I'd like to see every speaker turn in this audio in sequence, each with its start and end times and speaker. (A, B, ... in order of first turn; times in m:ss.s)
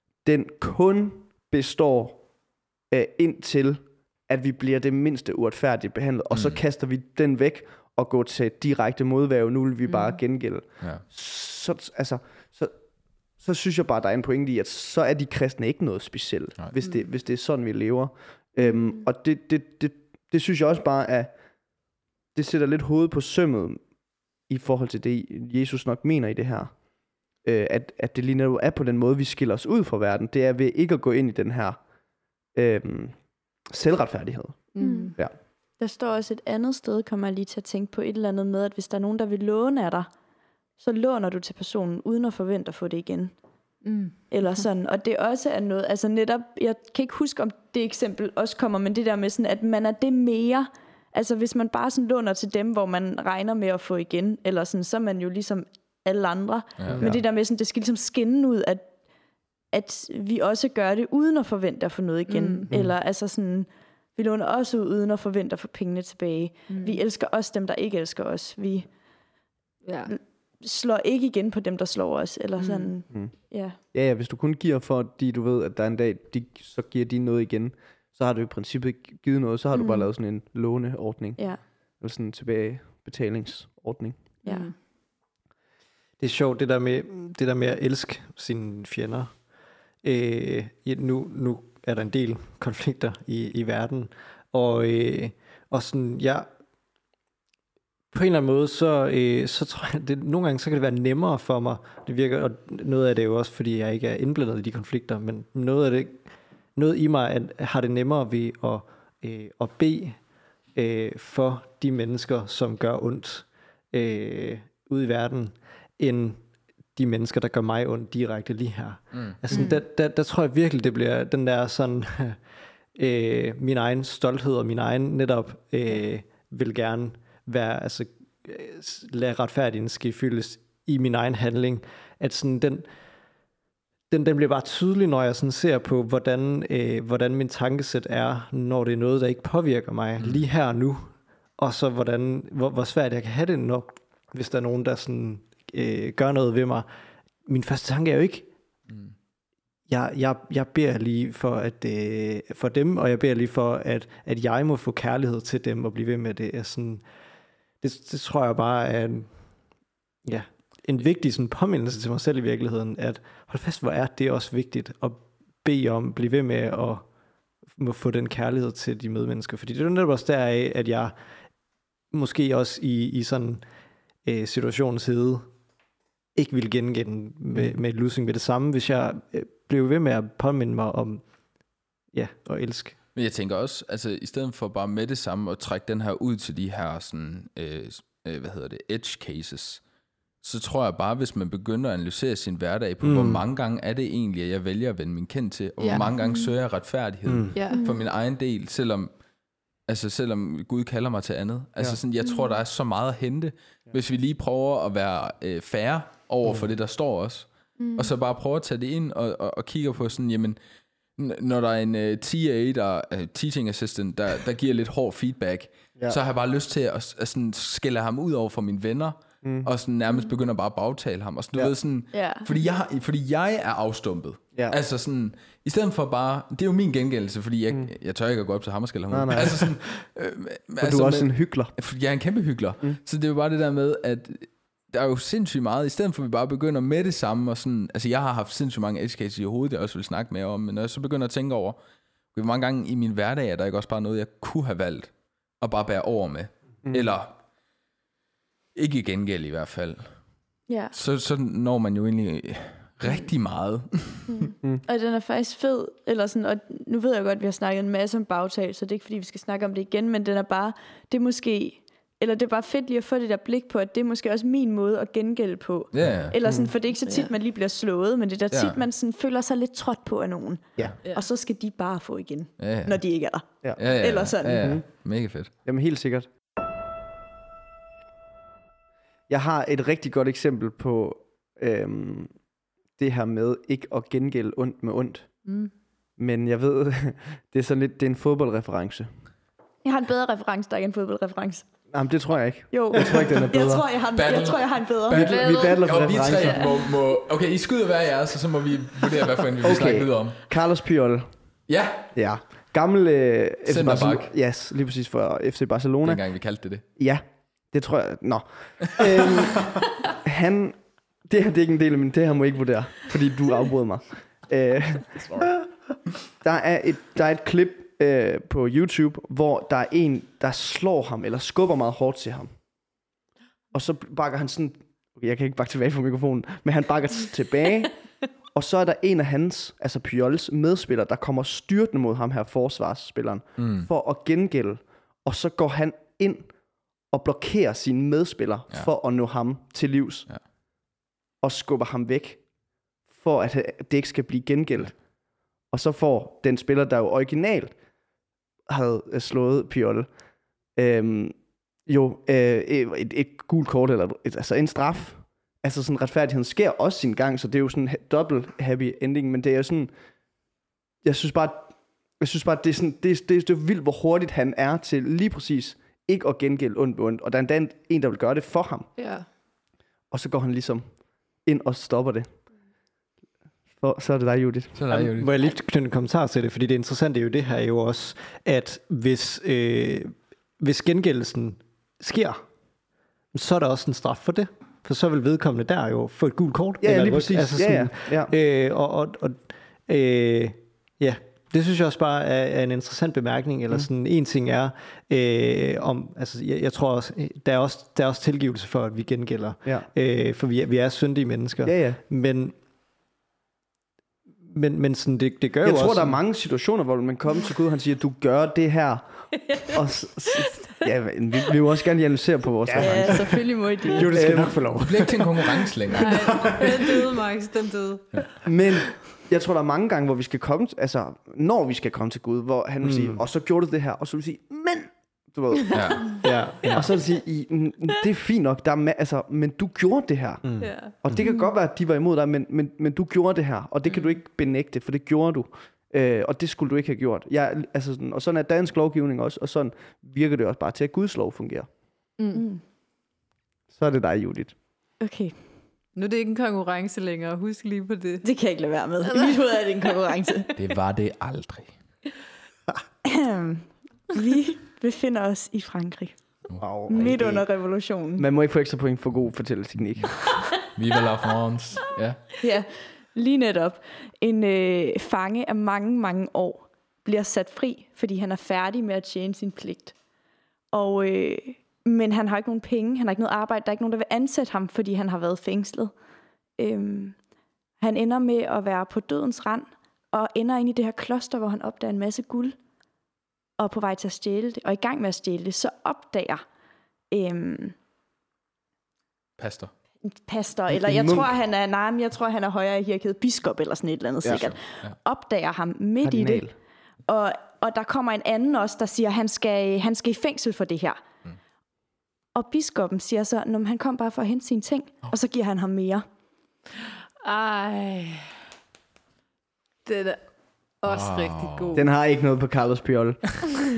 0:00.2-0:02.3 A
0:02.9-0:12.8 A
0:06.3-0:06.6 B
0:09.9-0:10.1 C
0:10.8-0:11.0 B
0:13.3-0:21.4 A
0:16.8-0:17.0 D
0:18.6-0:19.0 D
0:22.3-0:31.8 A
0:32.5-0:35.3 A
0:34.7-0:35.1 C
0:34.8-0:35.2 D
0:35.8-0:40.1 D
0:40.8-0:43.3 D
0:43.8-0:44.6 C
0:44.3-0:58.9 D
0:56.8-0:57.1 B
0:56.9-0:57.2 A
0:59.7-1:08.9 D
1:02.3-1:02.7 C
1:06.7-1:07.0 C
1:09.8-1:10.1 C
1:10.1-1:13.8 D
1:12.6-1:12.9 C
1:13.1-1:24.3 A
1:19.7-1:20.1 D
1:21.4-1:21.6 D
1:24.4-1:24.7 D
1:24.4-1:24.7 C
1:26.2-1:29.4 E
1:30.0-1:36.5 E
1:38.1-1:46.2 E
1:46.8-1:50.2 E
1:50.7-1:56.4 E
1:56.9-2:02.4 E
1:59.1-1:59.6 B
1:59.5-1:59.8 D
2:02.9-2:12.8 E
2:14.1-2:26.9 E
2:20.2-2:20.4 B
2:27.4-2:28.5 E
2:29.9-2:37.0 E
2:37.8-2:39.4 E
2:40.2-2:47.1 E
2:47.7-2:51.1 E
2:52.1-2:53.6 E
2:54.2-2:55.5 E
2:56.3-3:01.2 E
3:02.1-3:03.0 E
3:03.1-3:09.8 B
3:10.4-3:19.1 B
3:13.0-3:13.4 E
3:15.8-3:16.1 C
3:17.2-3:17.6 E
3:17.5-3:17.8 C
3:17.7-3:18.0 D
3:19.8-3:30.6 B
3:22.2-3:22.5 D
3:27.8-3:28.1 D
3:31.2-4:01.8 B
3:39.4-3:39.7 A
3:42.1-3:42.5 D
3:49.1-3:49.8 A
3:50.8-3:51.7 A
4:02.3-4:07.4 B
4:06.8-4:07.1 A
4:08.7-4:10.2 B
4:10.7-4:10.9 D
4:10.9-4:14.5 B
4:14.3-4:34.7 D
4:25.9-4:26.4 B
4:26.4-4:26.7 A
4:27.0-4:27.3 C
4:28.5-4:28.8 B
4:32.6-4:33.0 B
4:33.8-4:35.5 B
4:34.6-4:35.0 A
4:35.6-4:36.3 A
4:39.3-4:42.4 A
4:43.0-4:45.3 A
4:45.4-4:45.7 C
4:46.2-4:49.3 A
4:49.8-4:51.7 D
4:51.9-4:53.8 A
4:52.7-4:55.7 D
4:53.1-4:53.4 B
4:54.1-5:00.4 B
4:55.1-4:56.7 A
4:55.2-4:55.8 C
4:56.4-4:56.8 C
4:59.6-5:01.3 A
5:01.7-5:02.1 B
5:02.1-5:06.2 A
5:03.6-5:04.3 B
5:06.0-5:06.8 B
5:06.9-5:15.5 A
5:16.4-5:22.5 A
5:23.7-5:28.0 A
5:28.5-5:36.5 A
5:33.6-5:33.9 B
5:37.1-5:40.3 A
5:41.4-5:42.4 A
5:43.0-5:45.0 A
5:45.7-5:47.8 A
5:48.7-5:50.1 A
5:50.7-5:59.9 A
6:01.0-6:08.9 A
6:09.0-6:09.3 C
6:10.1-6:12.4 A
6:13.8-6:14.8 A
6:14.7-6:15.4 B
6:14.9-6:22.4 E
6:23.3-6:42.5 E
6:26.8-6:28.3 A
6:41.6-6:42.0 A
6:44.4-6:46.2 E
6:45.6-6:54.8 A
6:52.7-6:53.0 E
6:52.8-6:54.2 D
6:53.9-6:55.2 E
6:54.7-6:56.6 B
6:56.0-6:58.2 C
6:58.4-7:21.7 A
7:02.8-7:03.2 E
7:05.7-7:06.1 B
7:06.2-7:06.9 E
7:10.4-7:11.2 E
7:10.6-7:11.5 D
7:22.2-7:22.4 C
7:22.3-7:22.6 D
7:23.7-7:24.5 A
7:25.0-7:25.4 D
7:26.0-7:28.3 C
7:28.2-7:30.5 D
7:29.0-7:29.9 C
7:30.6-7:31.8 B
7:33.0-7:38.3 D
7:36.5-7:36.8 B
7:36.6-7:37.4 A
7:38.2-7:40.5 A
7:40.7-7:42.2 B
7:42.4-7:49.9 D
7:50.7-7:55.9 D
7:56.6-7:57.2 D
7:57.8-8:02.6 D
8:03.6-8:06.4 D
8:07.1-8:07.8 D
8:09.4-8:09.7 B
8:10.0-8:16.4 D
8:10.7-8:11.4 A
8:14.2-8:15.0 B
8:16.0-8:16.5 A
8:17.1-8:21.0 D
8:22.3-8:26.0 D
8:27.2-8:28.4 C
8:29.8-8:30.3 C
8:30.8-8:31.8 C
8:30.8-8:31.8 B
8:31.7-8:33.5 A